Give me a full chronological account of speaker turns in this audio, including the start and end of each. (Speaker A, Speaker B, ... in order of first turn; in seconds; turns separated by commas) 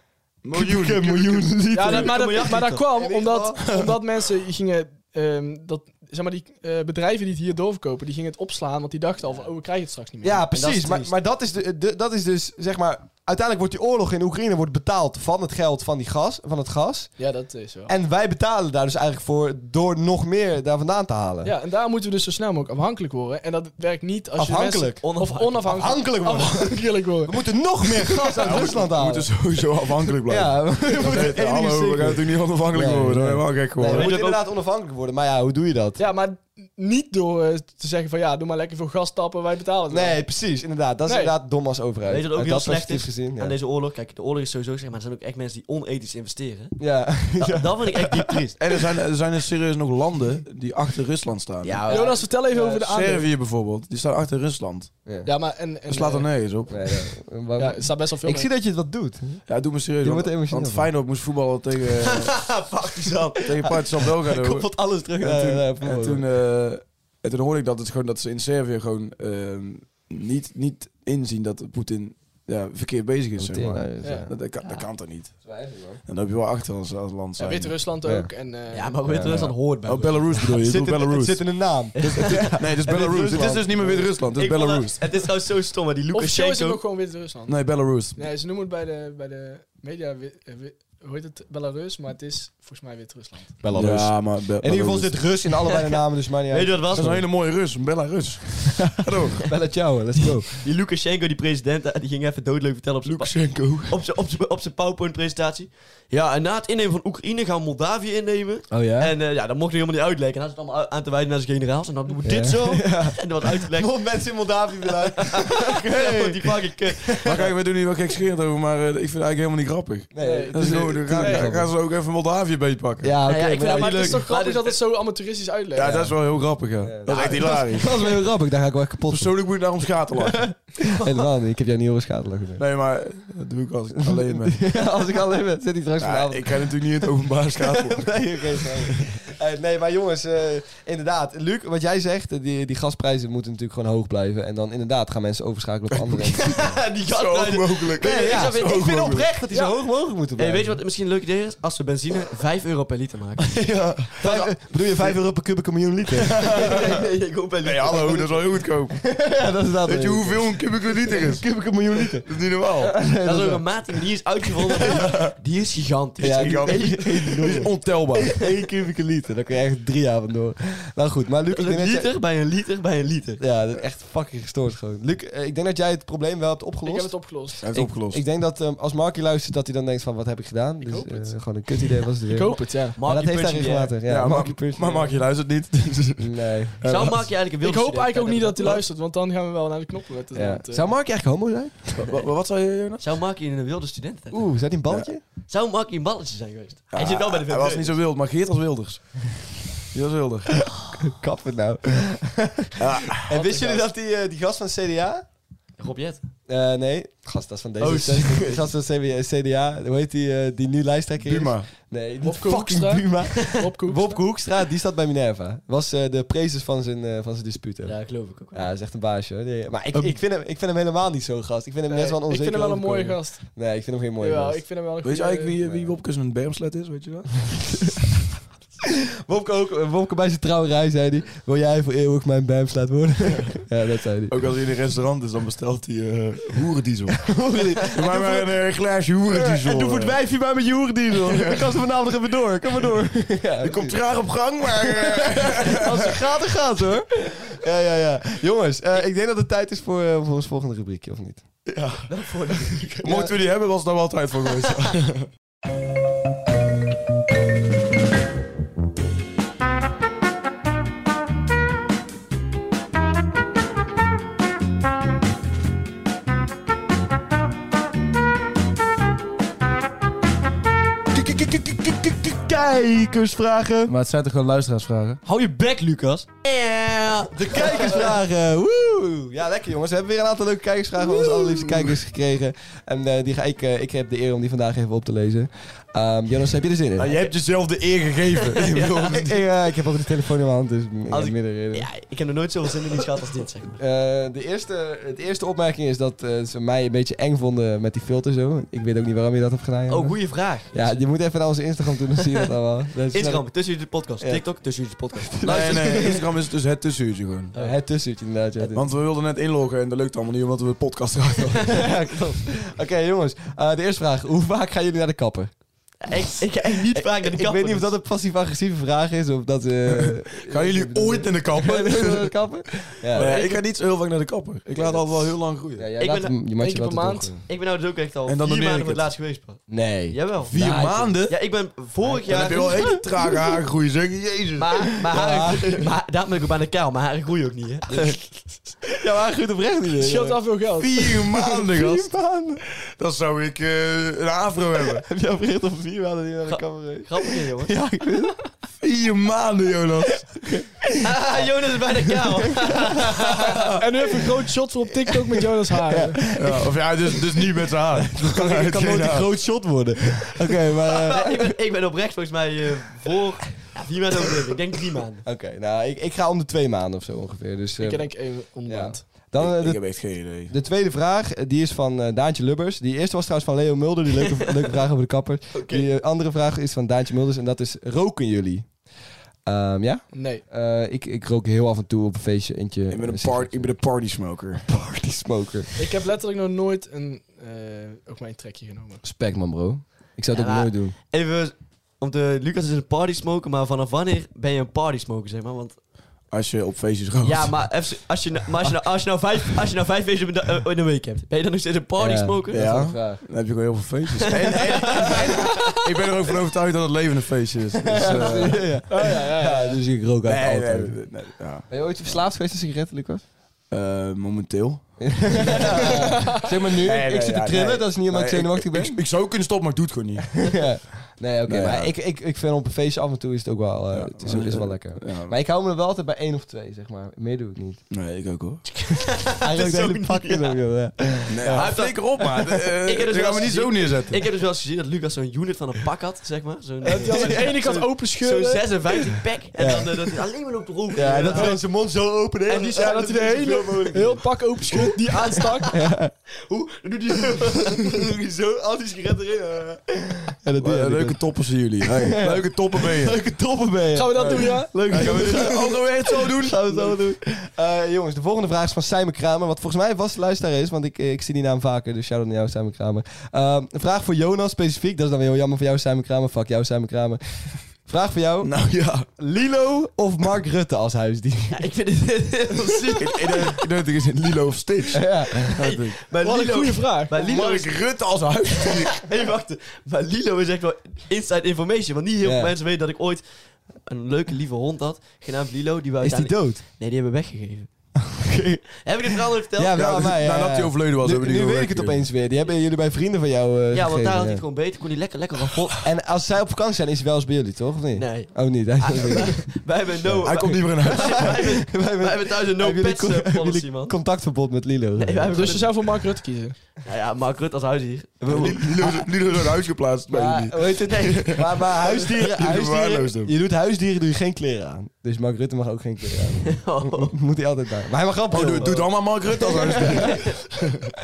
Speaker A: 0.4-2.0, Speaker B: 0.5-3.7, Speaker C: 1.7-10.4, Speaker D: 1.8-2.9, Speaker A: 3.6-4.0, Speaker B: 10.2-17.1, Speaker D: 10.5-11.1, Speaker C: 17.2-17.9, Speaker B: 17.9-21.5, Speaker C: 21.4-28.4, Speaker B: 24.4-29.4, Speaker D: 25.0-25.6, Speaker A: 28.4-34.3, Speaker B: 30.2-36.0, Speaker D: 33.9-34.4, Speaker C: 36.0-40.2, Speaker B: 39.9-43.5, Speaker C: 41.0-41.4, Speaker D: 42.1-46.8, Speaker B: 46.8-48.8, Speaker D: 47.3-48.6, Speaker A: 48.6-52.0, Speaker D: 51.6-52.2, Speaker C: 51.9-53.3, Speaker A: 52.6-55.0, Speaker C: 55.2-56.5, Speaker A: 55.9-56.8, Speaker B: 56.7-60.9, Speaker C: 57.5-58.5, Speaker A: 59.5-62.4, Speaker D: 62.0-65.5, Speaker A: 63.4-75.4, Speaker B: 65.2-66.2, Speaker B: 73.3-74.3, Speaker C: 74.0-74.3, Speaker B: 75.4-76.0, Speaker A: 76.0-77.8, Speaker C: 77.4-79.0, Speaker B: 78.0-78.3, Speaker D: 78.7-80.5, Speaker B: 79.0-79.5, Speaker A: 79.3-85.1, Speaker B: 80.4-84.1, Speaker D: 82.0-82.7, Speaker D: 84.3-86.8, Speaker C: 86.1-93.6, Speaker A: 87.5-88.2, Speaker B: 93.6-97.0, Speaker A: 93.7-95.3, Speaker D: 96.5-97.2, Speaker A: 96.9-99.4, Speaker B: 99.4-100.6, Speaker D: 100.6-114.0, Speaker A: 103.0-104.0, Speaker B: 108.7-109.1, Speaker B: 112.2-116.4, Speaker D: 115.2-117.5, Speaker B: 117.1-117.4, Speaker A: 117.2-123.1, Speaker B: 120.1-121.7, Speaker C: 120.2-121.5, Speaker B: 123.0-124.2, Speaker D: 123.2-124.8, Speaker C: 123.5-126.0, Speaker A: 125.8-127.9, Speaker B: 125.8-126.1, Speaker B: 126.8-129.3, Speaker D: 127.1-127.4, Speaker A: 129.1-130.5, Speaker B: 130.2-132.6, Speaker D: 130.9-131.2, Speaker A: 132.6-134.6, Speaker B: 134.0-146.7, Speaker A: 136.0-139.0, Speaker D: 146.2-148.7, Speaker A: 147.0-149.3, Speaker B: 148.0-150.8, Speaker C: 149.5-149.8, Speaker D: 150.4-154.5, Speaker A: 153.5-154.2, Speaker B: 154.2-156.7, Speaker A: 156.1-157.0, Speaker D: 156.5-158.4, Speaker A: 157.6-159.1, Speaker B: 158.9-163.8, Speaker A: 159.8-161.5, Speaker A: 162.1-162.9, Speaker D: 163.2-167.7, Speaker A: 164.8-165.3, Speaker A: 166.2-168.4, Speaker B: 166.2-172.1, Speaker D: 171.5-173.4, Speaker B: 173.4-185.2, Speaker C: 176.8-177.6, Speaker A: 177.6-178.2, Speaker C: 180.8-183.0, Speaker D: 182.9-183.9, Speaker A: 184.1-187.3, Speaker B: 186.2-186.8, Speaker D: 186.8-188.8, Speaker C: 187.5-190.9, Speaker B: 190.3-192.1, Speaker A: 192.0-193.0, Speaker D: 193.0-194.5, Speaker B: 194.3-195.2, Speaker D: 195.5-198.0, Speaker A: 196.9-199.2, Speaker A: 199.9-200.5, Speaker B: 201.0-205.2, Speaker A: 202.8-203.3, Speaker C: 203.3-203.9, Speaker D: 205.8-206.2, Speaker B: 206.5-224.6, Speaker D: 207.8-208.6, Speaker A: 211.2-211.7, Speaker C: 212.2-214.2, Speaker D: 217.8-218.7, Speaker C: 221.9-223.6, Speaker C: 224.2-225.6, Speaker A: 225.0-227.6, Speaker B: 225.6-225.9, Speaker B: 229.3-234.4, Speaker A: 234.3-237.3, Speaker B: 237.2-238.5, Speaker A: 237.9-240.2, Speaker B: 239.3-251.4, Speaker A: 241.3-241.6, Speaker A: 243.6-246.2, Speaker A: 251.7-252.1, Speaker D: 252.1-253.1, Speaker A: 253.0-255.3, Speaker B: 253.0-253.3, Speaker A: 271.2-272.1, Speaker B: 272.2-273.9, Speaker A: 273.9-275.2, Speaker D: 275.2-278.1, Speaker B: 277.4-287.2, Speaker A: 281.2-281.9, Speaker A: 287.0-289.4, Speaker D: 288.6-289.1, Speaker B: 289.1-291.9, Speaker D: 291.1-293.7, Speaker B: 293.8-304.4, Speaker D: 299.9-301.0, Speaker D: 303.1-305.8, Speaker B: 305.0-306.2, Speaker A: 305.4-307.5, Speaker B: 307.5-308.8, Speaker A: 308.7-311.8, Speaker B: 311.7-315.5, Speaker D: 311.8-312.4, Speaker D: 316.0-317.9, Speaker B: 316.9-323.4, Speaker A: 319.9-322.3, Speaker A: 323.1-325.9, Speaker C: 323.3-323.6, Speaker D: 324.7-325.2, Speaker B: 325.8-327.4, Speaker D: 326.0-326.4, Speaker C: 326.6-327.4, Speaker D: 327.5-330.6, Speaker A: 328.3-329.1, Speaker B: 329.7-331.1, Speaker A: 330.5-331.4, Speaker D: 331.1-333.0, Speaker A: 332.0-334.7, Speaker B: 332.6-333.6, Speaker D: 334.6-338.1, Speaker B: 335.0-335.8, Speaker B: 338.9-340.4, Speaker C: 339.9-341.3, Speaker A: 340.8-342.1, Speaker B: 341.3-342.6, Speaker A: 342.9-345.0, Speaker B: 344.9-348.4, Speaker D: 346.5-347.7, Speaker A: 348.8-350.3, Speaker B: 350.4-350.9, Speaker D: 351.0-353.6, Speaker C: 353.7-356.2, Speaker B: 355.8-361.6, Speaker A: 356.2-359.3, Speaker D: 361.1-365.2, Speaker B: 365.2-378.7, Speaker C: 367.8-369.2, Speaker A: 369.3-370.5, Speaker D: 375.5-375.9, Speaker B: 379.4-383.8, Speaker C: 380.1-380.4, Speaker A: 382.9-384.6, Speaker B: 384.7-385.7, Speaker C: 385.8-389.0, Speaker B: 389.0-390.9, Speaker D: 390.3-395.8, Speaker A: 396.3-397.6, Speaker D: 397.2-402.6, Speaker B: 402.0-403.2, Speaker A: 402.5-408.8, Speaker D: 404.5-405.2, Speaker B: 404.6-405.4, Speaker C: 404.8-405.8, Speaker B: 407.8-411.0, Speaker C: 408.8-409.8, Speaker A: 410.2-411.7, Speaker B: 411.7-413.2, Speaker A: 413.7-416.1, Speaker B: 415.0-419.0, Speaker C: 415.8-416.5, Speaker A: 416.8-420.4, Speaker B: 420.4-427.8, Speaker A: 421.5-421.9, Speaker A: 423.9-425.4, Speaker A: 427.9-428.6, Speaker D: 428.9-430.6, Speaker B: 429.4-432.6, Speaker A: 431.3-434.2, Speaker D: 431.5-432.1, Speaker D: 432.8-441.6, Speaker C: 436.8-438.6, Speaker B: 437.0-437.4, Speaker B: 439.1-440.1, Speaker B: 440.9-445.1, Speaker C: 441.3-441.6, Speaker C: 442.5-445.8, Speaker B: 445.7-446.1, Speaker D: 446.5-448.2, Speaker B: 448.1-451.2, Speaker A: 450.6-453.2, Speaker B: 451.8-467.2, Speaker C: 453.9-455.0, Speaker A: 454.2-457.0, Speaker B: 467.8-471.6, Speaker A: 468.4-469.1, Speaker D: 471.5-473.6, Speaker A: 473.0-476.0, Speaker B: 474.9-475.6, Speaker D: 475.6-477.9, Speaker C: 476.1-477.2, Speaker A: 477.1-479.0, Speaker D: 478.7-487.7, Speaker B: 482.2-482.5, Speaker B: 486.0-486.6, Speaker B: 488.0-494.4, Speaker D: 488.8-489.8, Speaker A: 489.8-492.1, Speaker D: 493.7-495.8, Speaker B: 495.8-499.5, Speaker D: 497.9-503.9, Speaker B: 500.1-505.6, Speaker A: 500.2-501.4, Speaker D: 505.0-506.0, Speaker C: 505.3-506.6, Speaker D: 506.8-508.3, Speaker B: 508.2-509.1, Speaker A: 508.2-513.3, Speaker B: 510.1-519.1, Speaker D: 510.8-511.5, Speaker D: 516.5-517.2, Speaker A: 518.3-520.8, Speaker D: 519.7-520.3, Speaker B: 519.8-520.1